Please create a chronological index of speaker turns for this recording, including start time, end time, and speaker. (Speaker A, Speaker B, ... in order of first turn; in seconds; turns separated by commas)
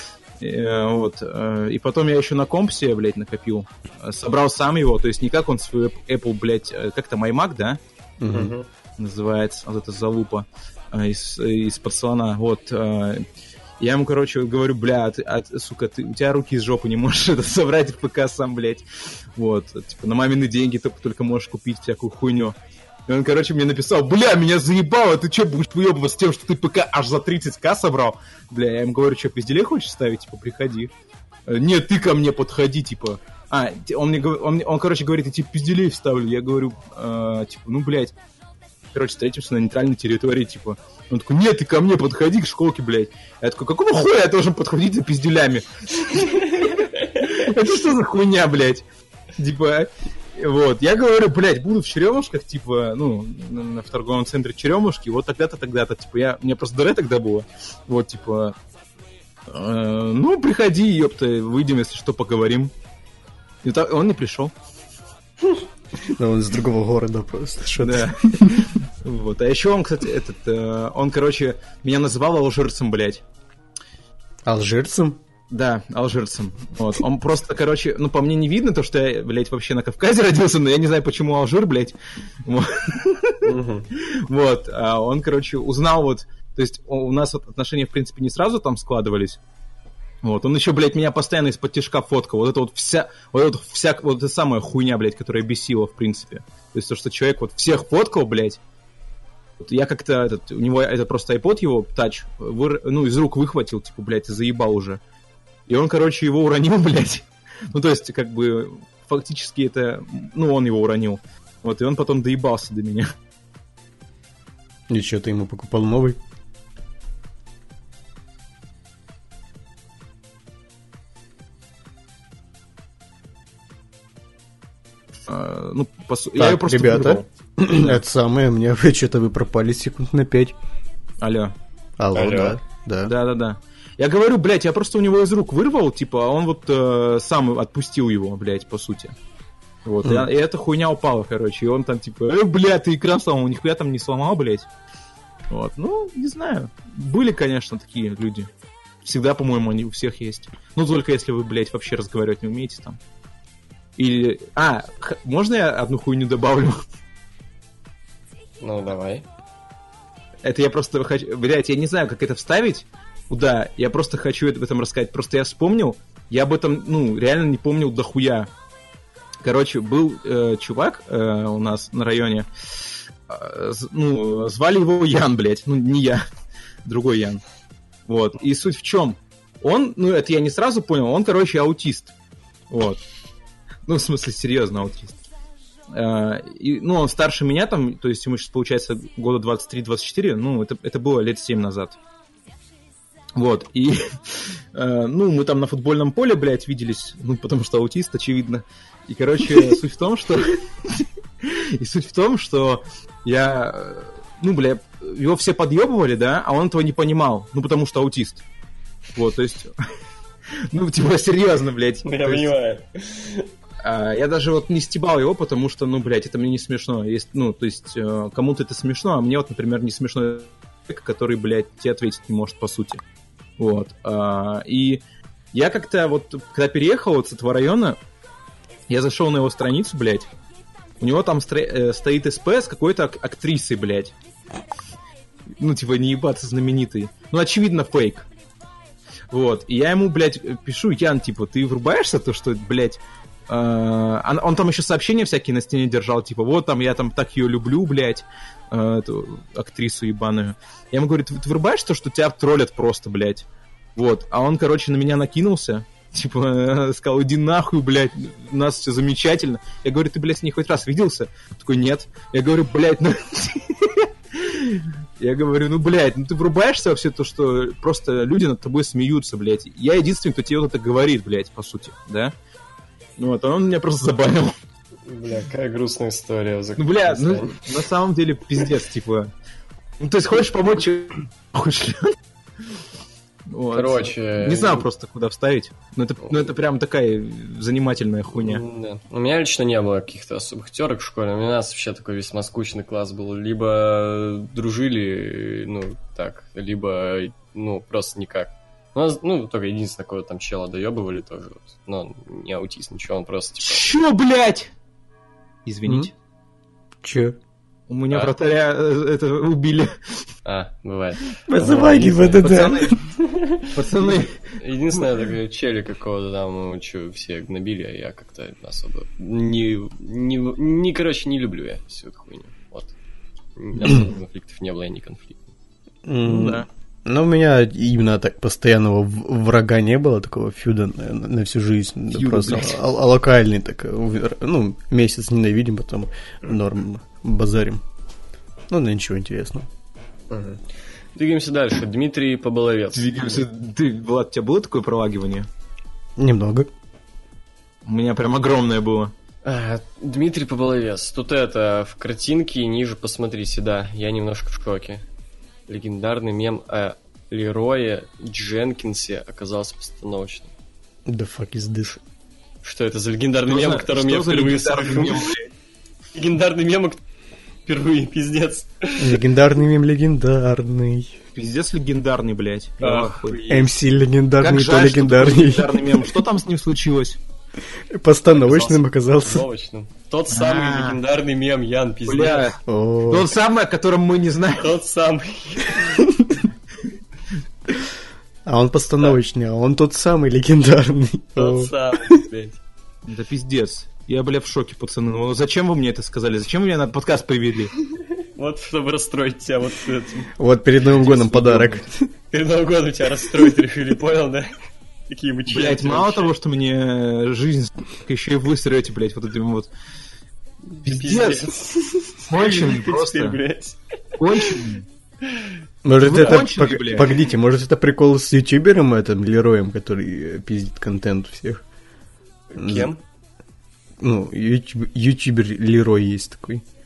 Speaker A: 0.4-7.8, Speaker B: 8.2-8.6, Speaker C: 8.3-8.7, Speaker A: 9.0-13.2, Speaker A: 13.8-18.8, Speaker A: 19.4-22.5, Speaker A: 23.1-30.9, Speaker A: 31.5-38.1, Speaker A: 38.9-48.8, Speaker A: 49.4-58.5, Speaker A: 59.5-62.7, Speaker A: 63.6-64.5, Speaker B: 66.0-68.7, Speaker A: 67.8-73.2, Speaker B: 74.5-75.2, Speaker A: 75.5-89.4, Speaker C: 83.4-83.9, Speaker A: 90.2-98.6, Speaker A: 99.6-105.0, Speaker A: 105.7-113.1, Speaker B: 114.9-116.2, Speaker A: 125.3-128.0, Speaker B: 126.3-130.5, Speaker A: 131.2-131.5, Speaker B: 132.0-133.1, Speaker C: 132.1-132.6, Speaker A: 133.1-139.1, Speaker A: 139.8-144.7, Speaker A: 145.5-148.5, Speaker A: 149.0-153.0, Speaker A: 154.0-156.8, Speaker C: 158.6-159.2, Speaker A: 160.4-168.5, Speaker A: 169.4-176.2, Speaker A: 176.8-177.4, Speaker A: 178.1-182.1, Speaker A: 182.7-183.0, Speaker A: 183.9-185.2, Speaker A: 185.9-192.0, Speaker A: 193.3-208.4, Speaker A: 209.1-209.7, Speaker A: 210.7-212.5, Speaker C: 212.0-213.5, Speaker A: 213.8-223.0, Speaker A: 223.6-225.0, Speaker A: 225.5-228.0, Speaker A: 228.9-230.3, Speaker A: 231.0-234.1, Speaker A: 235.6-238.2, Speaker A: 239.3-272.3, Speaker A: 273.2-274.5, Speaker C: 275.0-277.7, Speaker A: 276.8-279.3, Speaker A: 280.0-282.1, Speaker A: 283.5-288.6, Speaker C: 283.7-284.9, Speaker C: 288.3-303.8, Speaker A: 303.6-304.7, Speaker A: 305.6-306.1, Speaker B: 307.0-307.4, Speaker A: 307.9-309.9, Speaker C: 310.4-312.4, Speaker B: 311.5-313.0, Speaker A: 311.7-313.0, Speaker C: 313.1-313.8, Speaker A: 313.7-314.4, Speaker C: 314.6-322.9, Speaker C: 323.6-325.5, Speaker B: 326.1-337.8, Speaker A: 326.2-326.7, Speaker A: 332.1-332.8, Speaker B: 338.7-339.7, Speaker C: 340.3-340.6, Speaker C: 341.1-343.4, Speaker A: 342.9-345.5, Speaker B: 346.2-346.7, Speaker A: 347.9-349.1, Speaker C: 349.4-355.0, Speaker C: 355.7-360.5, Speaker B: 361.1-362.0, Speaker C: 362.6-365.3, Speaker A: 363.5-365.5, Speaker C: 366.1-367.0, Speaker C: 367.6-369.2, Speaker B: 369.0-371.2, Speaker A: 371.3-373.4, Speaker C: 372.8-373.7, Speaker B: 373.5-376.1, Speaker A: 374.4-377.2, Speaker B: 377.9-379.4, Speaker C: 378.3-382.5, Speaker A: 380.3-381.0, Speaker A: 382.1-384.7, Speaker B: 382.7-383.3, Speaker C: 384.6-386.1, Speaker B: 388.4-392.2, Speaker C: 391.4-392.6, Speaker A: 393.1-397.7, Speaker C: 398.0-400.3, Speaker B: 400.4-402.1, Speaker C: 401.0-401.5, Speaker A: 401.3-401.8, Speaker C: 402.3-404.5, Speaker C: 405.1-406.3, Speaker A: 405.5-409.7, Speaker C: 410.7-414.6, Speaker A: 410.8-411.5, Speaker A: 412.3-413.4, Speaker A: 414.2-414.8, Speaker C: 415.2-415.6, Speaker B: 415.8-421.6, Speaker A: 415.9-417.2, Speaker C: 422.5-423.0, Speaker B: 422.6-422.9, Speaker B: 424.0-426.6